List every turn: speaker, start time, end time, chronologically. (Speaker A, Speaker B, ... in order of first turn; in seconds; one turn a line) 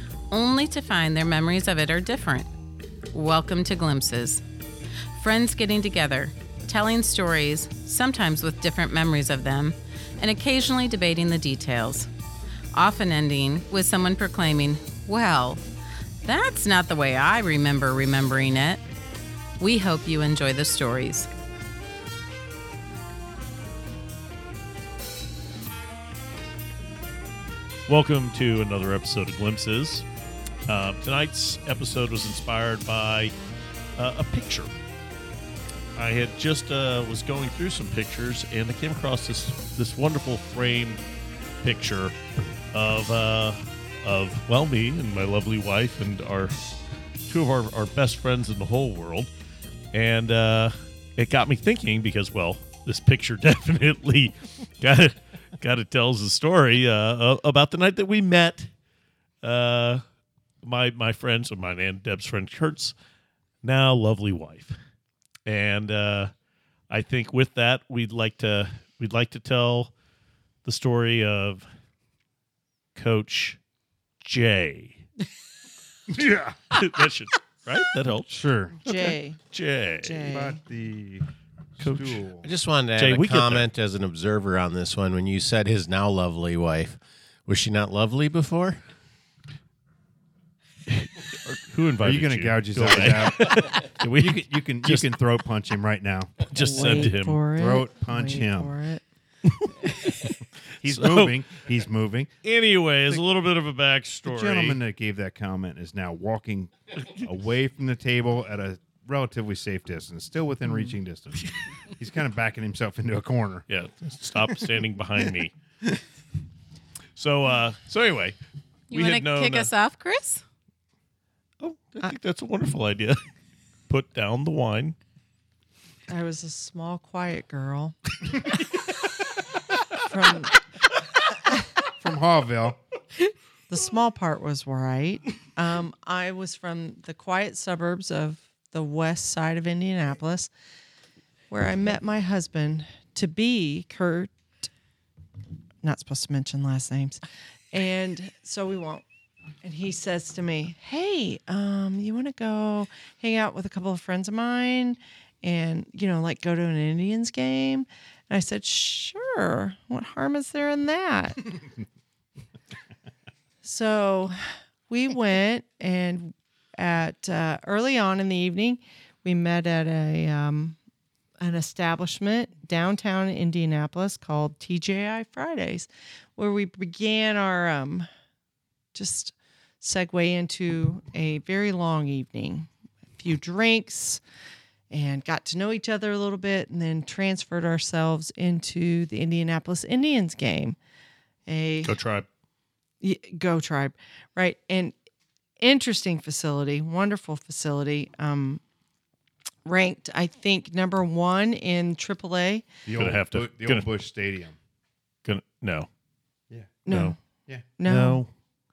Speaker A: 0.3-2.5
Speaker A: 3.1-4.4
Speaker A: 5.1-12.1
Speaker A: 12.7-15.6
Speaker A: 16.2-18.8
Speaker A: 19.6-21.3
Speaker B: 27.9-30.1
Speaker B: 30.7-33.3
Speaker B: 34.0-34.7
Speaker B: 36.0-41.0
Speaker B: 41.6-42.1
Speaker B: 42.7-46.6
Speaker B: 47.3-49.3
Speaker B: 49.9-58.7
Speaker B: 59.4-60.0
Speaker B: 60.6-62.9
Speaker B: 63.6-64.8
Speaker B: 65.5-66.3
Speaker B: 66.9-69.9
Speaker B: 70.6-71.6
Speaker B: 73.0-73.6
Speaker B: 74.2-75.0
Speaker C: 76.1-76.8
Speaker B: 76.7-78.3
Speaker C: 78.3-78.8
Speaker D: 78.8-79.4
Speaker B: 78.8-80.3
Speaker D: 80.0-80.6
Speaker C: 80.2-81.2
Speaker C: 81.8-82.5
Speaker B: 81.8-82.2
Speaker E: 82.4-88.8
Speaker B: 83.0-83.7
Speaker B: 90.9-95.1
Speaker C: 92.0-96.3
Speaker B: 96.5-97.4
Speaker D: 96.5-99.0
Speaker C: 97.5-98.7
Speaker B: 99.4-101.4
Speaker C: 100.8-102.3
Speaker B: 102.4-104.8
Speaker C: 104.2-113.6
Speaker B: 113.7-115.5
Speaker B: 117.2-118.4
Speaker A: 118.9-120.4
Speaker B: 118.9-119.7
Speaker B: 121.6-123.2
Speaker B: 123.9-125.0
Speaker D: 126.1-127.9
Speaker D: 130.0-130.6
Speaker C: 131.9-132.8
Speaker D: 133.7-140.5
Speaker D: 141.5-144.3
Speaker D: 145.8-147.2
Speaker D: 147.7-149.0
Speaker D: 149.6-161.5
Speaker D: 163.6-164.4
Speaker D: 164.9-170.8
Speaker D: 171.4-178.1
Speaker D: 178.9-184.2
Speaker D: 184.9-190.8
Speaker D: 191.5-192.0
Speaker B: 191.8-192.2
Speaker D: 193.0-194.9
Speaker D: 195.6-198.6
Speaker D: 199.6-202.7
Speaker C: 202.8-204.5
Speaker B: 202.9-203.9
Speaker B: 205.2-205.9
Speaker C: 206.5-206.8
Speaker D: 206.8-207.2
Speaker B: 206.9-207.1
Speaker D: 207.8-208.2
Speaker B: 207.8-208.3